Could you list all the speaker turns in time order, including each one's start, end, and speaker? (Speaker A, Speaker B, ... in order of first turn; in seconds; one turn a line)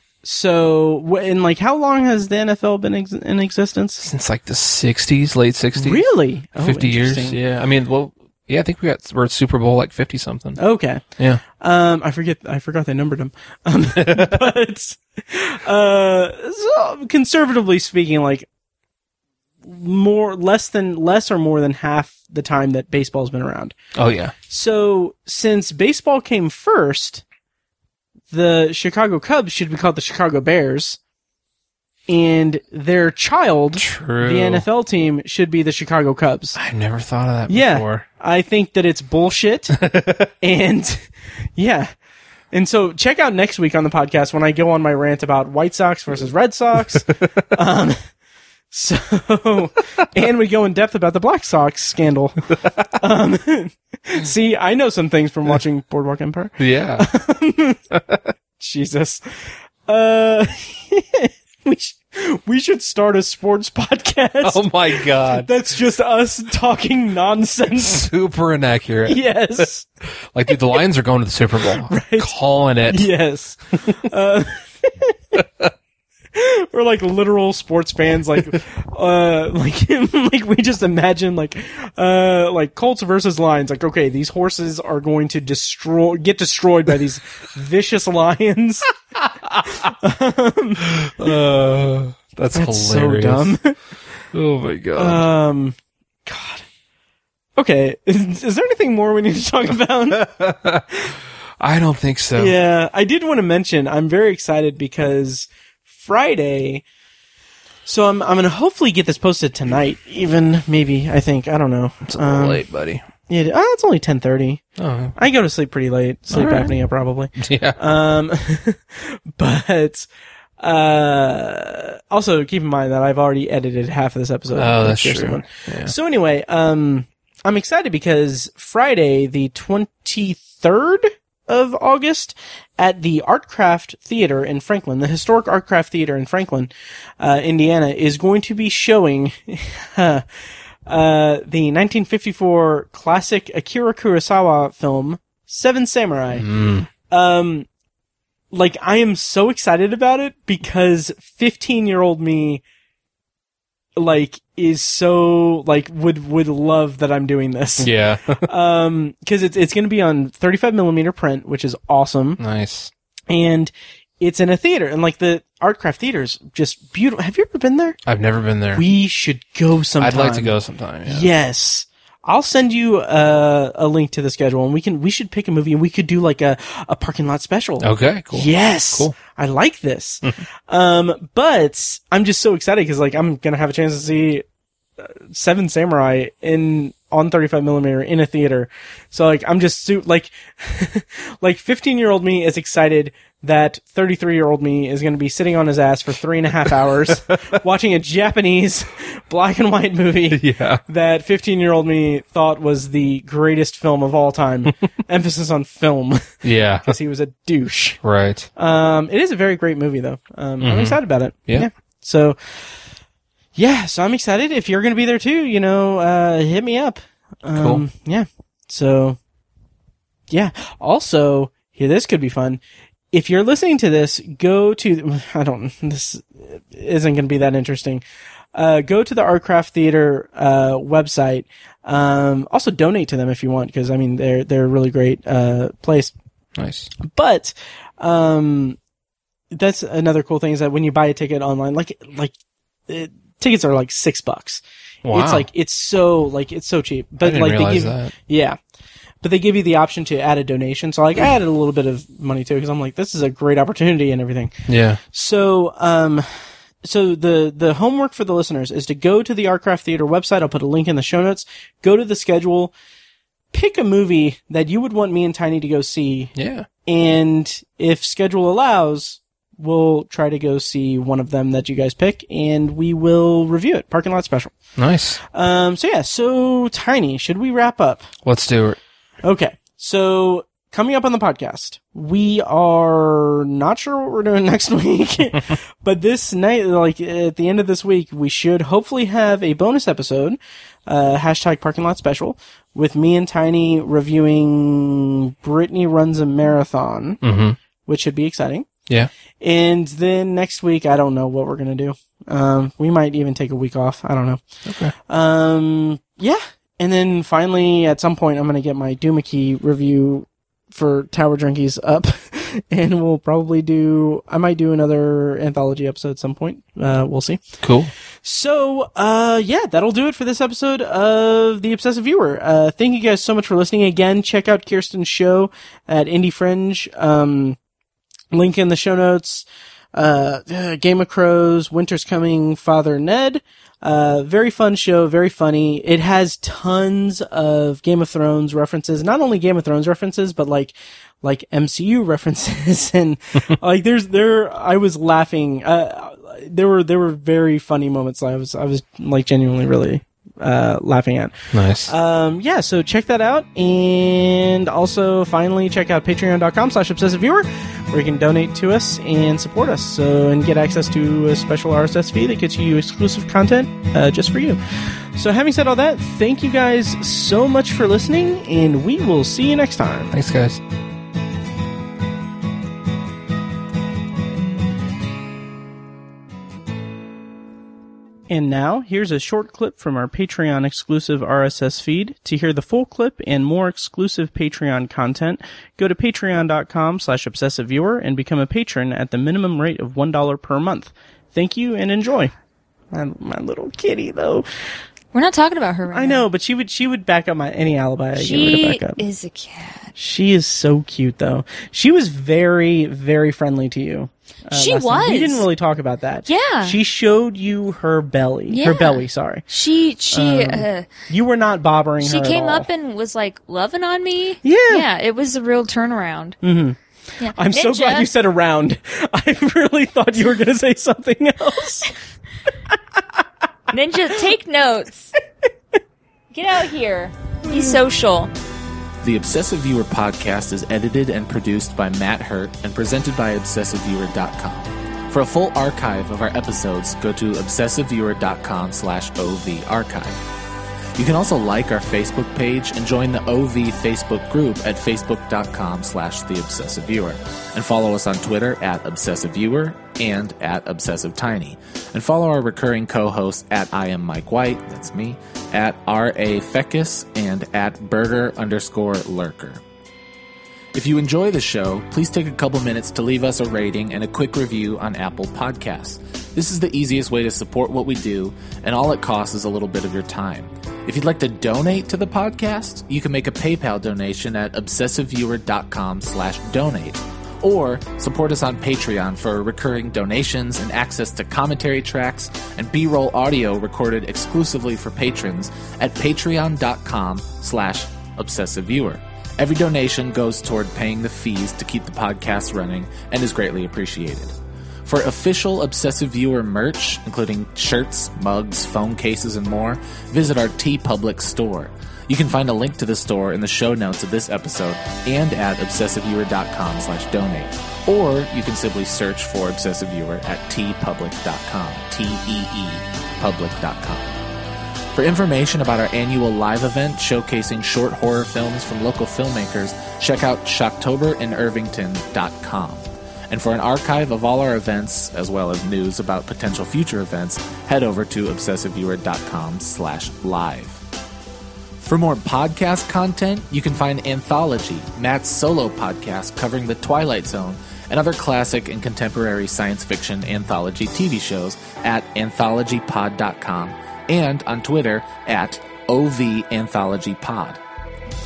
Speaker A: 0.2-4.0
Speaker B: 4.0-6.0
Speaker A: 5.8-7.4
Speaker B: 6.6-10.6
Speaker A: 10.6-18.5
Speaker B: 14.0-14.4
Speaker A: 19.6-23.8
Speaker B: 24.0-24.4
Speaker A: 24.5-27.2
Speaker A: 28.3-31.0
Speaker A: 32.1-36.6
Speaker B: 33.8-34.6
Speaker B: 36.6-38.0
Speaker A: 37.5-39.8
Speaker B: 39.8-40.3
Speaker A: 40.4-41.9
Speaker A: 42.5-48.0
Speaker A: 48.7-52.4
Speaker B: 52.6-52.9
Speaker A: 53.0-57.8
Speaker B: 56.6-57.1
Speaker B: 57.9-58.3
Speaker A: 58.6-68.0
Speaker B: 64.4-65.5
Speaker B: 67.8-69.2
Speaker A: 69.1-69.9
Speaker B: 70.3-73.1
Speaker A: 71.8-72.3
Speaker A: 72.9-75.4
Speaker A: 76.3-88.9
Speaker B: 89.5-89.8
Speaker A: 89.8-91.4
Speaker B: 90.8-93.5
Speaker A: 92.5-93.8
Speaker B: 94.3-95.3
Speaker A: 95.0-96.7
Speaker A: 97.6-100.3
Speaker B: 100.2-101.0
Speaker B: 101.6-102.5
Speaker A: 102.4-106.8
Speaker A: 107.9-112.6
Speaker B: 112.1-113.0
Speaker A: 113.3-114.6
Speaker B: 114.8-115.2
Speaker A: 115.2-120.1
Speaker B: 116.3-116.8
Speaker B: 117.4-117.8
Speaker A: 120.6-140.3
Speaker B: 124.5-125.9
Speaker A: 140.9-146.5
Speaker B: 146.3-146.9
Speaker A: 147.0-147.7
Speaker A: 148.5-152.6
Speaker A: 154.0-157.9
Speaker B: 157.8-158.4
Speaker A: 158.4-162.4
Speaker B: 162.4-162.9
Speaker A: 163.3-168.0
Speaker B: 168.1-168.8
Speaker A: 168.8-170.5
Speaker B: 170.0-171.3
Speaker A: 171.1-184.4
Speaker B: 177.8-179.2
Speaker A: 185.0-208.0
Speaker B: 200.3-200.8
Speaker B: 206.4-206.9
Speaker B: 208.0-208.5
Speaker A: 208.6-212.7
Speaker B: 210.6-211.7
Speaker A: 213.6-219.2
Speaker B: 217.6-217.8
Speaker A: 220.3-236.1
Speaker B: 236.6-236.9
Speaker A: 237.0-238.8
Speaker A: 239.5-242.3
Speaker A: 242.9-248.6
Speaker B: 245.1-245.5
Speaker B: 247.2-248.1
Speaker A: 249.2-254.6
Speaker B: 254.7-255.0
Speaker A: 255.1-256.3
Speaker A: 256.8-262.7
Speaker A: 263.5-266.3
Speaker B: 266.4-266.7
Speaker A: 266.9-274.6
Speaker B: 274.8-275.2
Speaker A: 275.2-278.1
Speaker B: 278.2-278.8
Speaker A: 279.2-297.2
Speaker B: 297.2-297.6
Speaker A: 297.9-298.7
Speaker A: 299.4-304.4
Speaker B: 304.7-304.9
Speaker A: 305.1-317.6
Speaker B: 317.6-317.9
Speaker A: 318.2-327.6
Speaker A: 328.3-364.6
Speaker B: 351.5-351.9
Speaker A: 365.1-370.1
Speaker B: 370.1-370.6
Speaker A: 378.3-392.3
Speaker A: 392.9-394.4
Speaker C: 395.1-396.3
Speaker A: 395.9-399.0
Speaker C: 398.2-399.9
Speaker A: 400.0-409.4
Speaker C: 404.5-405.5
Speaker C: 406.3-406.8
Speaker C: 408.5-410.9
Speaker A: 410.1-412.7
Speaker C: 412.0-416.4
Speaker A: 414.4-414.9
Speaker A: 416.4-416.8
Speaker C: 417.2-418.1
Speaker A: 417.3-421.9
Speaker C: 423.7-425.1
Speaker C: 426.3-428.3
Speaker A: 427.5-427.8
Speaker D: 429.0-440.2
Speaker D: 441.0-459.6
Speaker D: 460.7-514.2
Speaker D: 514.9-530.8
Speaker D: 531.8-547.6